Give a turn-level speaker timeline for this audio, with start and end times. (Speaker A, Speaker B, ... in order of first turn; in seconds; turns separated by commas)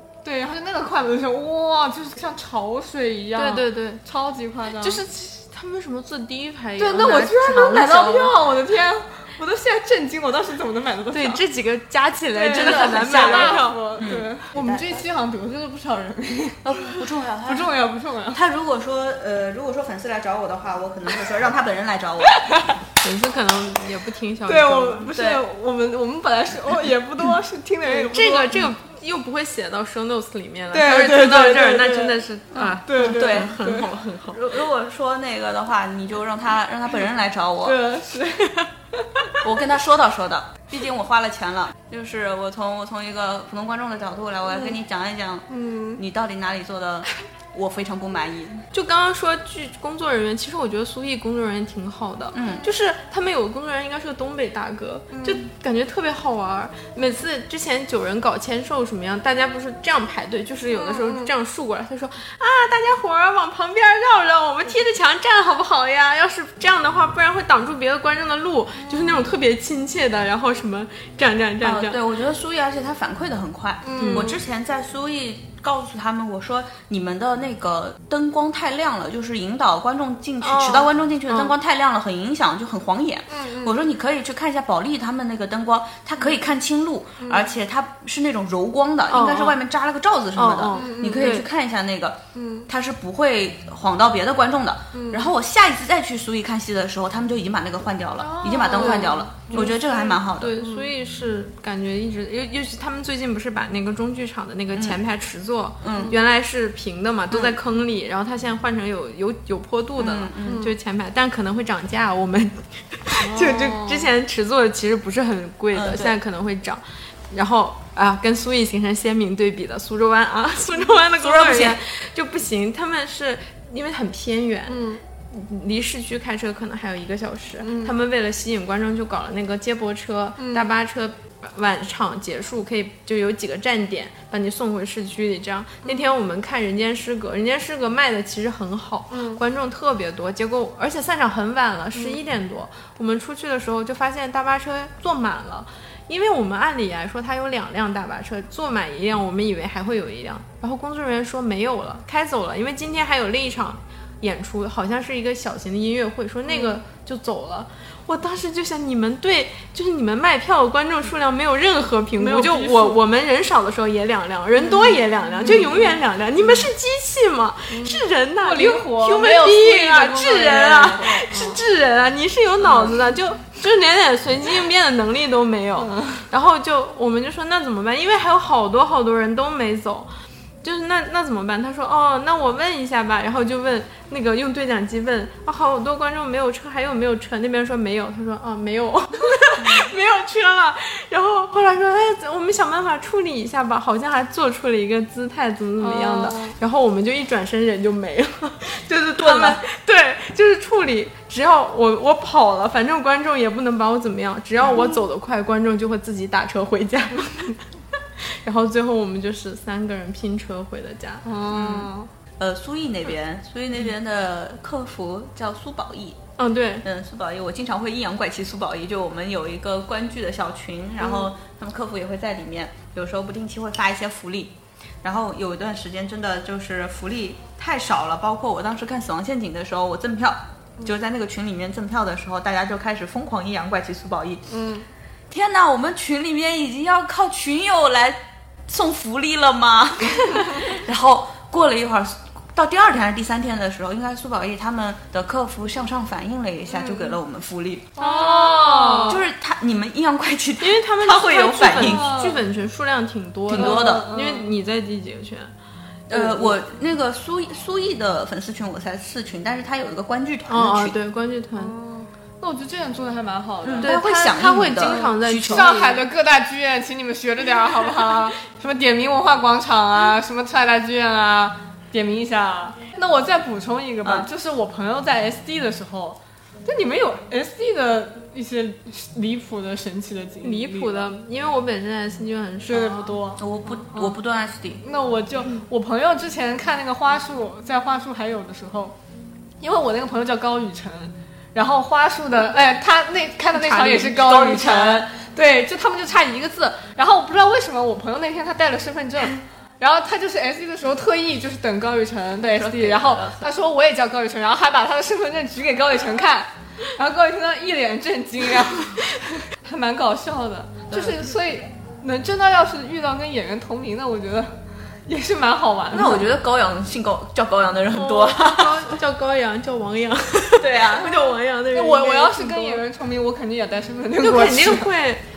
Speaker A: 0.2-5.0, Speaker B: 3.4-4.0, Speaker B: 4.8-8.4, Speaker A: 6.8-11.4, Speaker C: 7.9-8.3, Speaker B: 11.1-14.1, Speaker A: 12.3-18.4, Speaker C: 12.5-15.0, Speaker C: 16.6-17.7, Speaker C: 18.3-22.4, Speaker A: 22.3-22.8, Speaker B: 23.0-25.2, Speaker A: 24.4-28.7, Speaker C: 25.1-25.4, Speaker B: 27.9-34.6, Speaker A: 30.7-33.9, Speaker C: 32.5-37.8, Speaker A: 37.6-39.4, Speaker C: 39.4-48.7, Speaker A: 45.5-46.0, Speaker B: 48.7-72.0, Speaker C: 52.3-52.7, Speaker A: 55.1-55.5, Speaker A: 60.7-61.3, Speaker A: 68.8-69.3, Speaker C: 71.6-100.6, Speaker A: 73.8-74.4, Speaker B: 74.0-74.4, Speaker B: 80.4-81.5, Speaker A: 83.3-83.8, Speaker A: 87.2-87.5, Speaker B: 89.1-89.6, Speaker B: 90.3-91.5, Speaker A: 90.7-91.4, Speaker A: 92.3-92.7, Speaker A: 94.9-95.3, Speaker A: 98.2-100.9, Speaker B: 98.7-99.8, Speaker B: 100.4-180.1, Speaker C: 104.7-105.0, Speaker C: 105.8-106.2, Speaker C: 107.3-107.6, Speaker C: 110.0-110.7, Speaker A: 110.4-110.7, Speaker A: 113.2-114.1, Speaker C: 115.7-116.2, Speaker C: 121.2-121.8, Speaker A: 124.7-125.0, Speaker A: 127.6-127.9, Speaker A: 130.4-130.7, Speaker A: 139.1-139.4, Speaker A: 156.5-156.8, Speaker A: 162.2-163.0, Speaker A: 164.6-166.7, Speaker A: 167.7-171.6, Speaker C: 170.7-171.2, Speaker A: 172.6-172.9, Speaker A: 175.8-176.2, Speaker B: 180.6-207.7, Speaker C: 189.6-189.9, Speaker A: 195.8-196.6, Speaker C: 199.2-199.6, Speaker B: 208.2-211.2, Speaker A: 211.2-212.1, Speaker C: 211.6-211.8, Speaker C: 212.4-216.2, Speaker B: 216.4-216.8, Speaker C: 216.8-234.4, Speaker A: 234.5-234.9, Speaker C: 235.3-248.3, Speaker A: 246.7-247.2, Speaker A: 248.0-249.2, Speaker B: 248.0-249.2, Speaker C: 249.0-252.1, Speaker B: 250.6-255.5, Speaker A: 251.7-252.4, Speaker C: 253.5-254.1, Speaker A: 253.5-254.5, Speaker C: 256.1-261.0, Speaker B: 256.1-256.5, Speaker B: 260.5-261.7, Speaker A: 261.6-264.1, Speaker C: 263.6-265.8, Speaker B: 263.8-266.0, Speaker A: 264.8-281.1, Speaker B: 280.4-283.2, Speaker A: 282.7-284.2, Speaker C: 283.4-284.8, Speaker A: 284.8-288.9, Speaker A: 289.6-316.2, Speaker B: 293.5-294.7, Speaker C: 294.3-295.0, Speaker C: 302.4-303.5, Speaker C: 310.9-311.2, Speaker C: 315.9-319.0, Speaker B: 317.9-322.8, Speaker C: 320.6-321.1, Speaker A: 321.7-324.9, Speaker B: 324.2-325.2